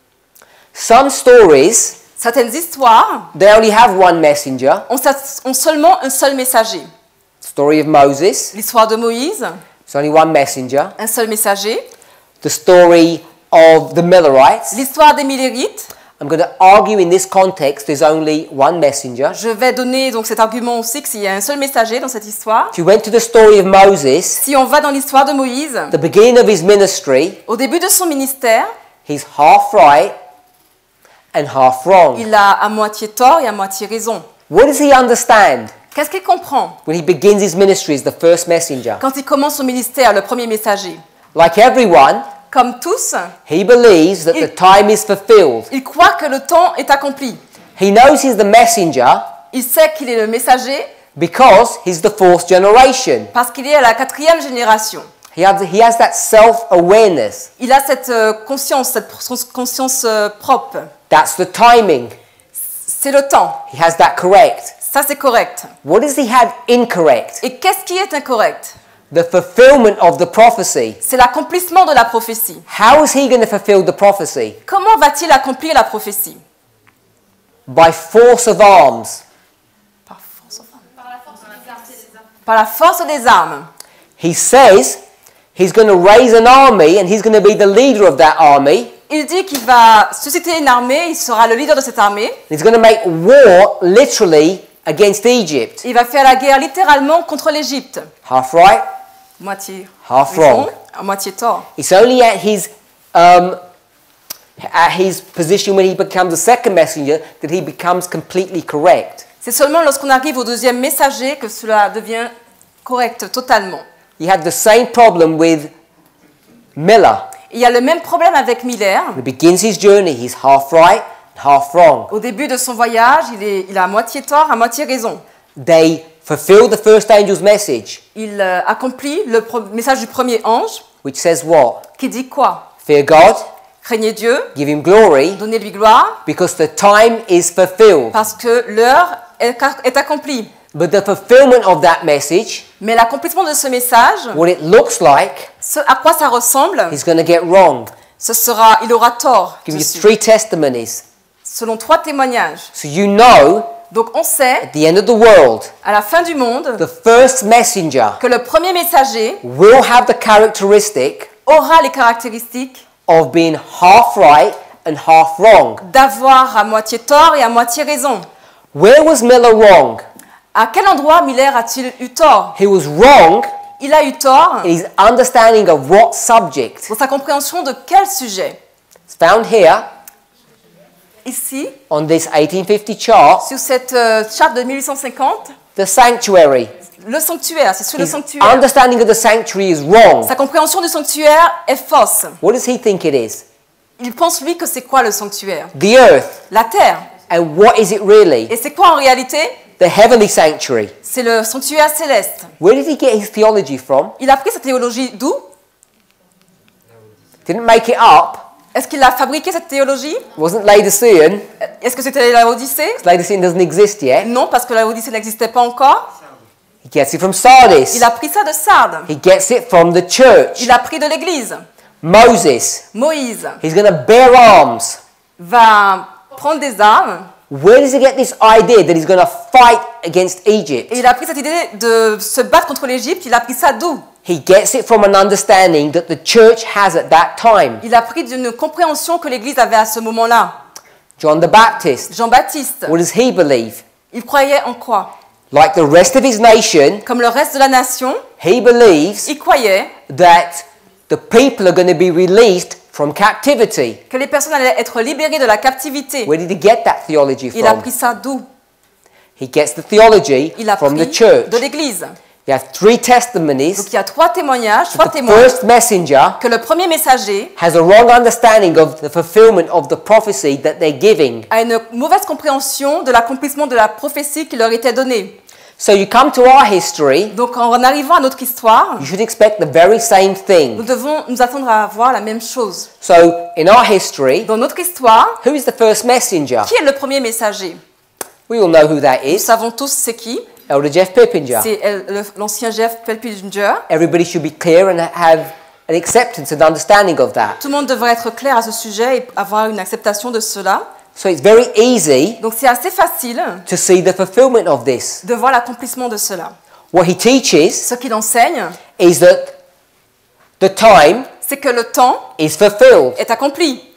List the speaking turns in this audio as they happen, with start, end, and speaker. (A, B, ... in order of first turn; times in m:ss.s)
0:00.7-0:02.0 A
0:02.2-0:03.3 B
0:03.3-0:04.8 A
0:04.9-0:06.9 B
0:07.4-0:08.5 A
0:08.5-0:09.6 B
0:09.9-0:10.9 A
0:11.0-0:11.8 B
0:12.4-0:14.8 A
0:14.7-0:15.9 B
0:16.2-0:19.4 A
0:19.3-0:22.8 B
0:22.7-0:24.4 A
0:24.4-0:25.9 B
0:25.9-0:27.4 A
0:27.5-0:28.7 B
0:29.0-0:30.2 A
0:31.3-0:32.3 A
0:32.1-0:34.2 B
0:34.5-0:35.7 A
0:35.9-0:36.8 B
0:36.8-0:39.0 A
0:39.0-0:41.0 B
0:41.3-0:42.3 A
0:42.5-0:43.3 B
0:43.5-0:45.7 A
0:45.7-0:47.4 B
0:47.8-0:49.3 A
0:49.5-0:50.9 B
0:51.2-0:53.3 A
0:53.3-0:55.1 B
0:55.3-0:57.5 A
0:57.6-1:00.9 B
1:01.1-1:02.1 A
1:02.8-1:03.6 B
1:03.7-1:04.7 A
1:04.8-1:05.7 B
1:05.8-1:07.4 A
1:07.4-1:08.8 B
1:09.1-1:11.0 A
1:11.0-1:12.6 B
1:12.7-1:14.6 A
1:14.7-1:16.4 B
1:17.7-1:19.2 A
1:20.1-1:20.8 B
1:22.4-1:23.7 B
1:24.2-1:25.0 A
1:25.5-1:28.9 A
1:29.1-1:32.4 B
1:32.5-1:35.8 A
1:35.8-1:38.1 B
1:38.2-1:38.8 A
1:39.4-1:41.7 B
1:40.0-1:40.7 A
1:41.8-1:43.6 A
1:44.6-1:49.2 A
1:49.4-1:52.3 B
1:52.8-1:53.8 B
1:54.2-1:55.7 A
1:56.8-1:57.3 A
1:57.5-1:59.2 B
1:59.2-2:02.1 A
2:02.1-2:05.2 B
2:05.6-2:08.0 A
2:08.1-2:10.8 B
2:11.0-2:11.8 A
2:12.0-2:12.7 B
2:12.8-2:13.5 A
2:13.8-2:14.5 B
2:14.5-2:15.4 A
2:15.4-2:16.2 B
2:16.2-2:18.2 A
2:18.1-2:20.5 B
2:20.7-2:22.6 A
2:22.8-2:24.4 B
2:24.3-2:25.5 A
2:25.6-2:27.0 B
2:26.9-2:27.9 A
2:28.2-2:30.1 B
2:29.7-2:31.0 A
2:31.4-2:32.7 B
2:32.7-2:33.8 A
2:33.9-2:34.7 B
2:34.6-2:35.7 A
2:35.8-2:36.8 B
2:36.8-2:38.2 A
2:38.2-2:39.4 B
2:39.4-2:41.3 A
2:41.4-2:42.8 B
2:43.1-2:45.8 A
2:45.8-2:48.3 B
2:48.7-2:50.0 A
2:50.5-2:52.6 B
2:52.6-2:53.5 A
2:53.8-2:54.7 B
2:54.6-2:56.9 A
2:56.9-2:58.6 B
2:59.1-2:59.8 A
3:01.2-3:01.8 B
3:01.9-3:03.5 A
3:03.4-3:05.6 B
3:05.8-3:06.7 A
3:07.0-3:08.7 B
3:08.0-3:10.3 A
3:10.2-3:12.4 B
3:12.4-3:13.4 A
3:14.0-3:15.7 B
3:15.7-3:16.4 A
3:16.5-3:17.1 B
3:17.3-3:18.5 A
3:18.5-3:19.6 B
3:19.8-3:20.9 A
3:21.0-3:22.5 B
3:22.6-3:24.1 A
3:24.2-3:25.5 B
3:27.4-3:28.5 A
3:28.7-3:30.2 B
3:30.3-3:31.4 A
3:31.6-3:33.0 B
3:33.0-3:34.3 A
3:34.2-3:36.1 B
3:36.8-3:38.1 A
3:37.9-3:39.1 B
3:39.1-3:40.7 A
3:40.6-3:41.6 B
3:42.0-3:42.8 A
3:42.9-3:43.6 B
3:43.6-3:45.0 A
3:45.4-3:47.3 B
3:47.5-3:51.0 A
3:50.9-3:54.1 B
3:54.2-3:57.8 A
3:57.8-4:00.6 B
4:01.2-4:02.1 A
4:02.1-4:03.0 B
4:02.8-4:03.8 A
4:04.1-4:05.1 B
4:05.5-4:07.0 A
4:07.0-4:08.2 B
4:08.4-4:09.3 A
4:09.2-4:09.9 B
4:10.1-4:14.0 A
4:14.1-4:16.3 B
4:16.2-4:17.9 A
4:17.5-4:18.4 B
4:19.4-4:21.6 A
4:20.6-4:22.2 B
4:22.4-4:23.9 A
4:23.8-4:25.6 B
4:24.9-4:26.4 A
4:26.4-4:27.5 B
4:27.6-4:31.5 A
4:31.5-4:35.4 B
4:35.8-4:37.3 A
4:37.3-4:39.1 B
4:39.0-4:40.8 A
4:40.7-4:42.9 B
4:43.0-4:44.5 A
4:44.4-4:45.4 B
4:45.4-4:46.7 A
4:46.6-4:47.8 B
4:48.5-4:49.5 A
4:49.3-4:50.5 B
4:50.7-4:51.7 A
4:51.5-4:53.8 B
4:53.9-4:57.6 A
4:57.6-5:00.8 B
5:01.2-5:02.4 A
5:02.4-5:03.6 B
5:03.7-5:05.2 A
5:05.2-5:06.5 B
5:06.9-5:07.9 A
5:07.8-5:08.8 B
5:09.0-5:09.5 A
5:10.6-5:11.3 A
5:11.4-5:12.3 B
5:12.4-5:13.2 A
5:13.2-5:13.9 B